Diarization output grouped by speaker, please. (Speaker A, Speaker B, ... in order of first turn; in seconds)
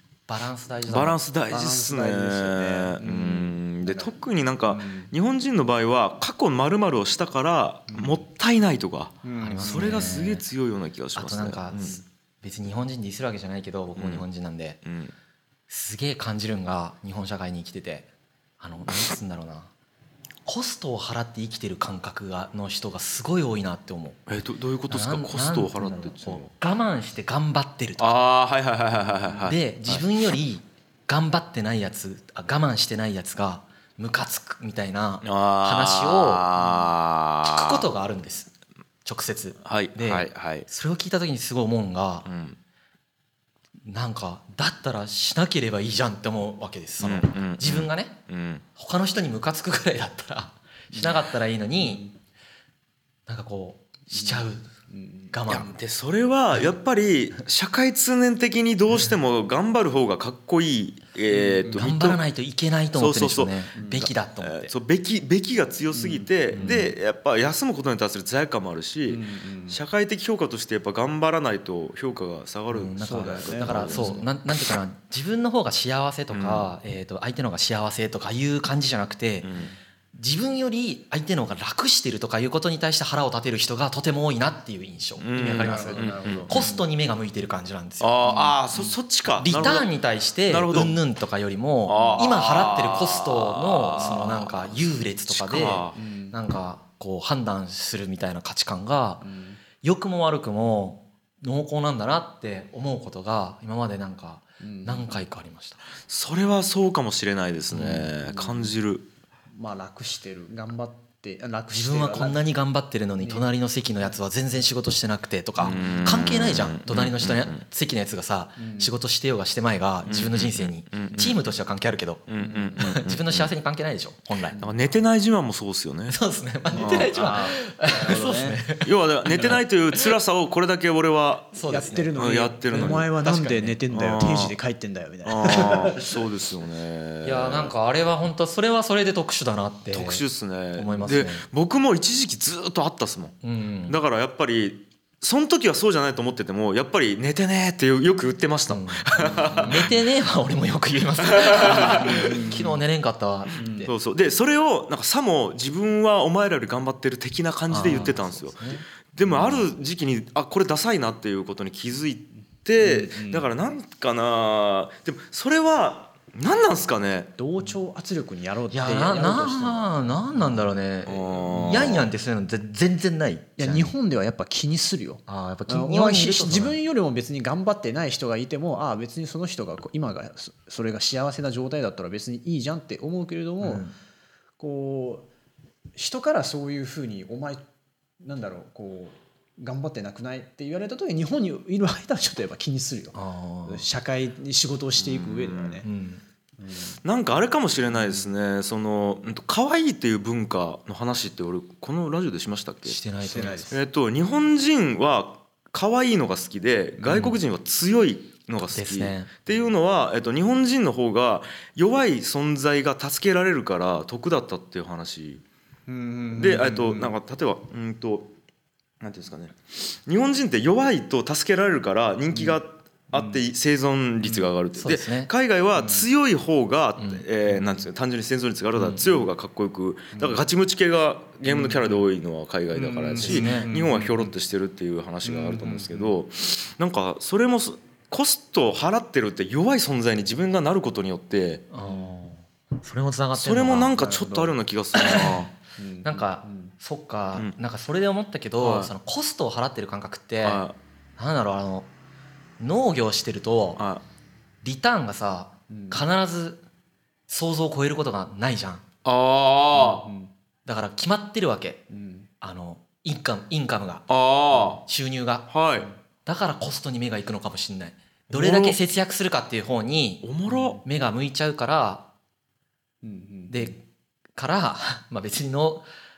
Speaker A: 0.3-1.2, 9.4-10.4, 11.1-14.8, 15.7-18.1, 18.6-19.7, 20.4-24.2, 24.9-28.2, 29.4-36.5, 37.4-38.5, 39.0-42.3, 43.9-48.2, 48.8-52.1, 53.3-54.6, 55.3-55.7, 61.7-64.7, 66.5-66.9, 72.8-79.5, 80.1-88.5, 89.4-99.2, 99.8-105.8, 107.7-108.1, 111.7-122.2, 122.8-124.6, 126.1-130.1, 131.5-132.1, 132.7-133.8, 137.2-140.2, 140.8-141.4, 143.4-144.0, 148.7-153.9, 157.7-159.6, 168.7-173.9, 175.3-176.8, 183.6-183.9, 193.1-193.8, 195.8-196.2, 202.8-203.8, 207.0-207.4, 208.7-209.3, 224.8-225.3, 227.0-227.2, 228.8-229.1, 233.2-233.7, 241.7-243.9, 244.9-245.5, 246.0-250.6, 251.2-251.9, 252.6-253.8, 254.6-256.6, 257.3-258.8, 260.6-261.9, 262.4-264.1, 264.8-265.5, 266.2-272.1, 273.5-273.8, 274.3-275.9
Speaker B: 0.8-12.0, 13.9-14.2, 14.8-15.1, 24.3-26.5, 28.0-30.0, 35.2-37.9, 39.6-40.7, 42.2-42.6, 47.0-48.6, 55.5-62.2, 62.9-74.2, 76.3-76.7, 79.4-79.7, 85.2-86.6, 88.0-89.9, 90.5-91.0, 91.8-94.8, 95.3-96.0, 106.1-109.1, 115.6-117.6, 120.0-121.4, 122.3-123.5, 124.6-126.2, 126.7-127.3, 128.8-131.5, 132.1-133.1, 133.9-134.5, 135.2-137.7, 139.9-143.3, 143.9-149.9, 151.2-152.5, 153.8-167.3, 171.0-172.1, 195.0-195.8, 197.0-203.0, 203.7-215.4, 216.3-218.3, 219.0-241.7, 243.3-245.5, 248.6-248.9, 250.4-250.8, 253.8-254.0, 259.0-260.1, 264.1-264.8, 265.5-265.9, 268.3-268.8, 270.2-270.8
Speaker C: 1.5-4.1, 4.7-5.1, 7.9-8.2, 9.2-10.2, 50.9-51.2, 51.8-52.1, 54.1-55.7, 61.3-61.9, 63.7-64.0, 65.9-66.6, 69.1-69.8, 72.7-74.3, 85.3-86.8, 88.2-88.9, 91.9-92.3, 95.9-96.4, 99.2-99.6, 104.6-105.2, 108.2-108.7, 109.5-112.4, 113.2-113.5, 115.7-116.0, 118.6-118.9, 122.4-122.9, 124.5-124.8, 126.7-128.6, 129.3-129.6, 131.6-136.2, 149.2-149.9, 151.7-152.8, 153.6-153.9, 159.3-159.6, 162.8-163.5, 167.4-170.7, 171.5-172.0, 173.6-183.8, 184.6-185.3, 185.9-187.6, 188.2-195.8, 196.6-197.0, 197.9-198.2, 203.2-203.8, 215.9-217.2, 222.3-222.6, 223.1-223.4, 225.7-226.1, 227.5-227.8, 230.1-230.4, 231.5-232.0, 232.7-234.3, 235.2-236.1, 241.8-242.1, 243.9-244.6, 245.8-246.7, 255.7-256.0, 259.7-260.3, 261.9-262.3, 270.5-270.8, 273.0-273.7